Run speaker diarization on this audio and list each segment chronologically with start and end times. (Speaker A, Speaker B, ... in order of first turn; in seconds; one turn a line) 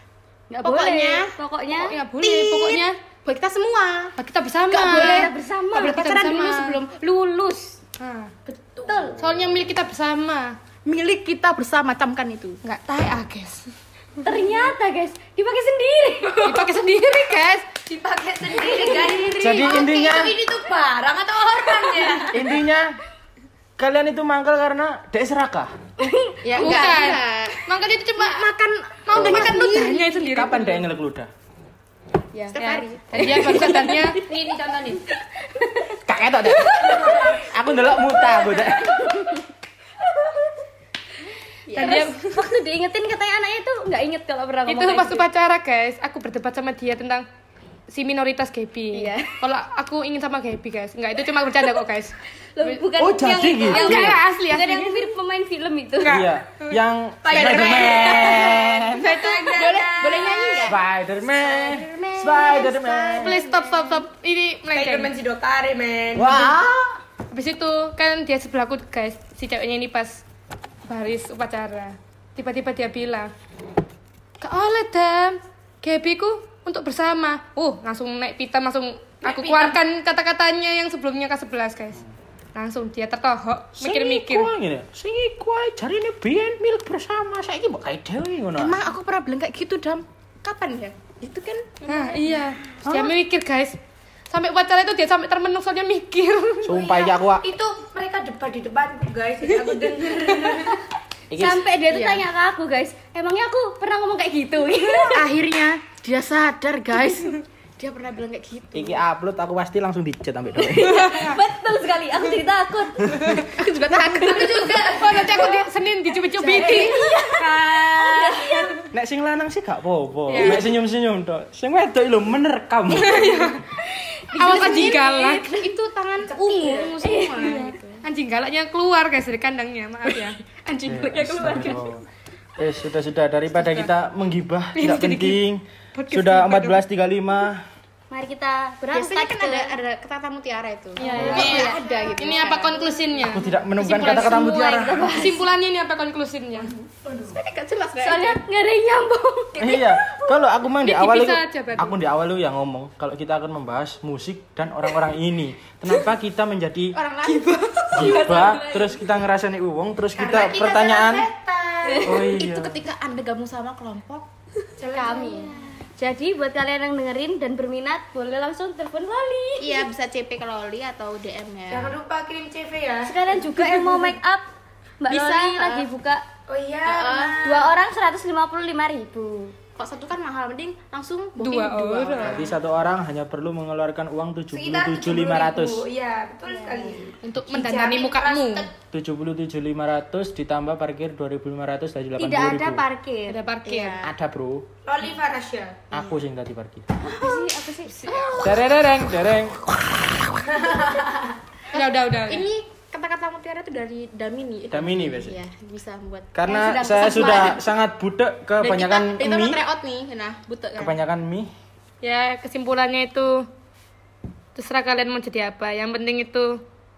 Speaker A: 0.5-2.0
Speaker B: 0.6-1.4
Speaker C: 1.9-3.0
Speaker B: 2.2-4.2
Speaker C: 4.2-6.8
Speaker B: 4.7-7.8
Speaker A: 4.8-6.2
Speaker C: 8.0-8.3
Speaker D: 8.5-9.2
Speaker A: 8.9-9.1
Speaker C: 9.2-10.6
Speaker B: 10.8-12.6
Speaker C: 12.6-13.7
Speaker A: 14.2-16.6
Speaker C: 16.4-17.8
Speaker D: 17.9-22.5
Speaker A: 18.5-19.2
Speaker E: 19.4-20.4
Speaker E: 22.3-23.0
Speaker E: 23.8-25.7
Speaker A: 26.0-26.8
Speaker B: 26.4-30.1
Speaker C: 26.5-28.5
Speaker C: 29.1-30.9
Speaker A: 29.4-30.0
Speaker E: 30.3-31.3
Speaker B: 32.5-33.8
Speaker C: 32.5-34.2
Speaker A: 33.2-34.4
Speaker D: 34.2-35.0
Speaker A: 35.5-37.2
Speaker E: 36.0-39.4
Speaker D: 37.0-37.4
Speaker A: 38.5-39.4
Speaker B: 41.7-42.1
Speaker D: 41.7-42.1
Speaker C: 41.8-42.5
Speaker A: 41.8-45.3
Speaker C: 44.7-47.2
Speaker C: 47.9-52.8
Speaker A: 48.9-49.4
Speaker A: 52.5-56.2
Speaker E: 53.0-54.2
Speaker C: 53.6-55.1
Speaker C: 56.0-56.8
Speaker E: 56.0-59.1
Speaker D: 57.2-60.6
Speaker B: 57.3-60.8
Speaker A: 59.2-59.6
Speaker A: 60.2-60.5
Speaker E: 60.6-63.4
Speaker B: 61.4-64.0
Speaker C: 63.2-65.1
Speaker D: 64.7-66.6
Speaker E: 66.2-67.0
Speaker C: 67.3-70.2
Speaker C: 70.9-73.3
Speaker C: 74.4-82.0
Speaker C: 82.5-84.5
Speaker E: 83.8-88.9
Speaker B: 88.6-92.2
Speaker C: 91.8-93.8
Speaker E: 92.8-93.1
Speaker C: 94.3-96.8
Speaker E: 96.6-97.5
Speaker D: 96.7-100.8
Speaker E: 101.3-101.7
Speaker A: 101.4-105.3
Speaker B: 101.9-102.3
Speaker B: 105.1-109.0
Speaker E: 108.7-111.0
Speaker A: 110.6-113.2
Speaker C: 110.8-111.4
Speaker C: 113.1-113.5
Speaker B: 113.5-115.1
Speaker D: 114.1-115.7
Speaker C: 114.8-116.9
Speaker D: 116.4-118.6
Speaker A: 116.5-118.7
Speaker B: 116.7-116.9
Speaker E: 118.9-123.6
Speaker C: 120.3-120.6
Speaker B: 120.4-120.6
Speaker C: 122.9-123.6
Speaker A: 123.9-125.6
Speaker B: 124.4-128.0
Speaker C: 124.4-125.6
Speaker D: 126.2-127.0
Speaker A: 127.0-127.7
Speaker C: 127.4-130.4
Speaker B: 130.1-132.0
Speaker E: 130.9-132.1
Speaker E: 132.6-137.7
Speaker C: 133.5-133.9
Speaker C: 134.8-136.8
Speaker A: 138.1-139.8
Speaker B: 138.8-143.2
Speaker A: 141.0-142.0
Speaker E: 141.1-141.6
Speaker C: 141.2-146.7
Speaker E: 143.3-145.1
Speaker A: 143.8-145.5
Speaker D: 147.1-147.4
Speaker B: 147.3-148.4
Speaker A: 148.0-150.3
Speaker E: 149.6-157.0
Speaker C: 150.8-152.0
Speaker B: 156.9-159.0
Speaker C: 157.5-158.0
Speaker E: 157.9-161.3
Speaker A: 158.2-158.6
Speaker D: 160.2-162.2
Speaker E: 162.0-162.8
Speaker B: 162.2-164.3
Speaker D: 164.8-165.5
Speaker A: 164.9-169.9
Speaker B: 169.6-172.0
Speaker D: 171.7-173.3
Speaker A: 173.0-174.5
Speaker A: 175.0-176.2
Speaker B: 175.1-175.9
Speaker D: 176.5-177.7
Speaker B: 176.8-177.4
Speaker A: 177.4-179.6
Speaker B: 179.8-182.6
Speaker C: 181.4-182.4
Speaker E: 182.2-185.9
Speaker D: 184.5-188.7
Speaker C: 187.2-188.7
Speaker E: 188.9-192.9
Speaker A: 192.2-193.4
Speaker C: 193.3-194.0
Speaker B: 193.7-194.1
Speaker E: 194.0-194.7
Speaker D: 194.8-195.9
Speaker E: 195.9-196.9
Speaker A: 197.0-198.7
Speaker C: 197.9-198.3
Speaker E: 198.4-199.6
Speaker D: 200.5-201.3
Speaker C: 201.7-202.5
Speaker B: 201.7-206.3
Speaker E: 204.7-205.4
Speaker E: 206.3-209.6
Speaker A: 206.5-207.6
Speaker B: 206.9-207.6
Speaker B: 208.6-211.0
Speaker E: 210.8-211.5
Speaker C: 212.0-213.5
Speaker C: 214.6-216.6